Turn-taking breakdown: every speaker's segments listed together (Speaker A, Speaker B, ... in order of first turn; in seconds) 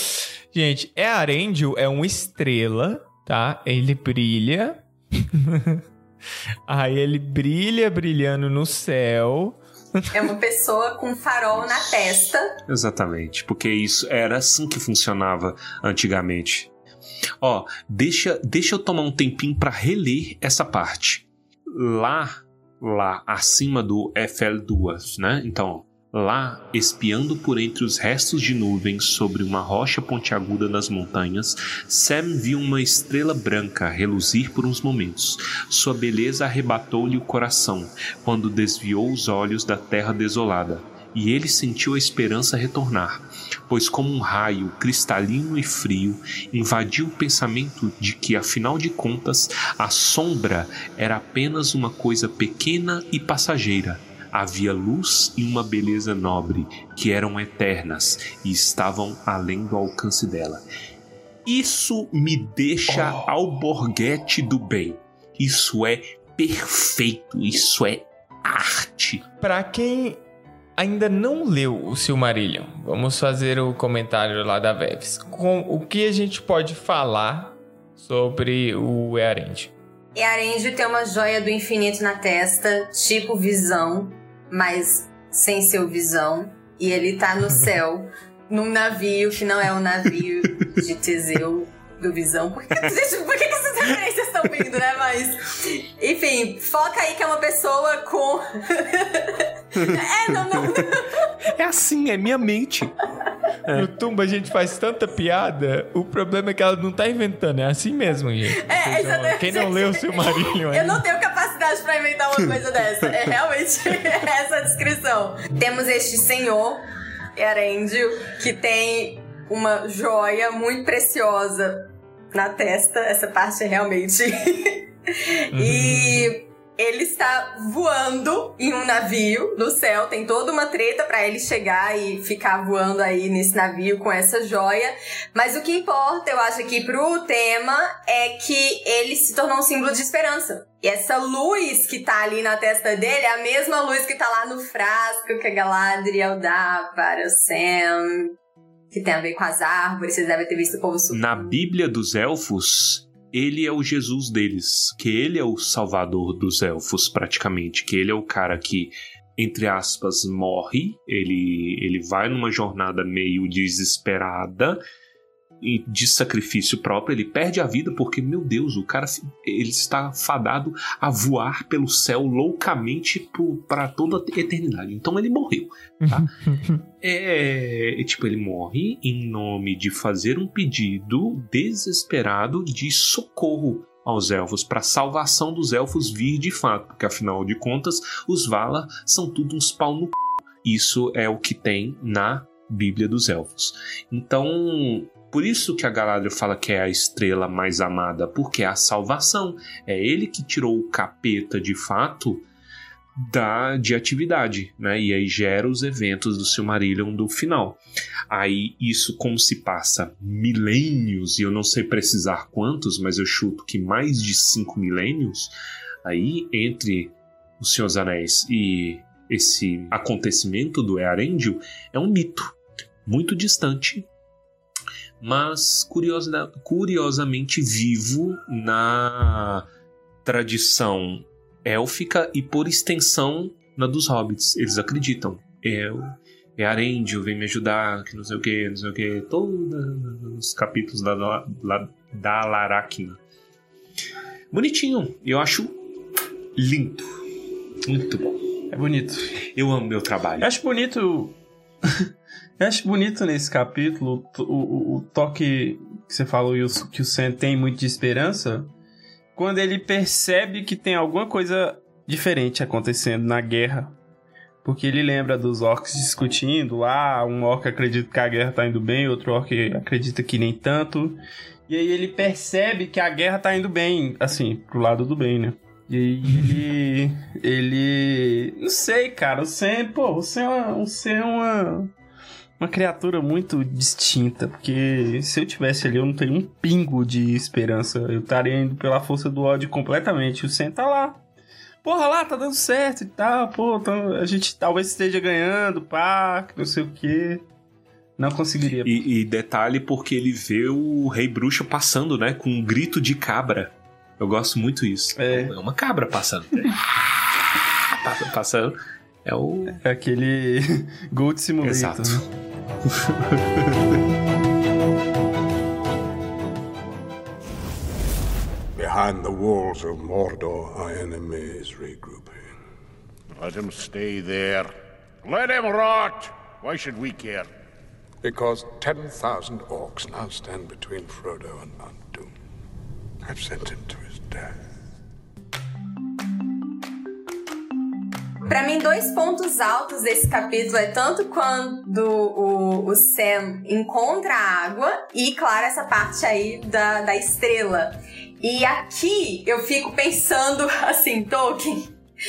Speaker A: 0.5-5.8, 6.7-10.0, 69.4-70.2, 70.8-79.7, 103.7-111.0, 125.6-126.2, 176.0-176.8
Speaker B: 10.1-12.5, 80.1-101.3, 108.5-116.8, 117.4-124.8, 125.5-148.3, 148.9-151.2, 338.5-351.9
Speaker C: 11.5-12.0, 12.7-16.7, 17.4-60.6, 61.5-69.2, 99.8-100.8, 101.5-103.0, 151.1-164.8, 165.6-176.2, 177.0-202.4, 203.2-215.5, 216.0-224.1, 225.2-229.6, 230.2-243.2, 244.5-245.7, 246.6-247.1, 247.8-248.3, 249.5-250.5, 298.8-306.9, 307.9-309.8, 311.6-312.2, 312.9-313.9
Speaker D: 248.7-249.4, 250.4-251.4, 252.6-258.7, 259.4-263.9, 264.6-281.9, 282.6-291.2, 291.8-297.4, 298.2-299.0, 305.2-305.5, 309.7-312.2
Speaker E: 318.7-322.5, 328.2-332.3, 333.2-334.5
Speaker F: 323.3-324.7, 325.2-327.5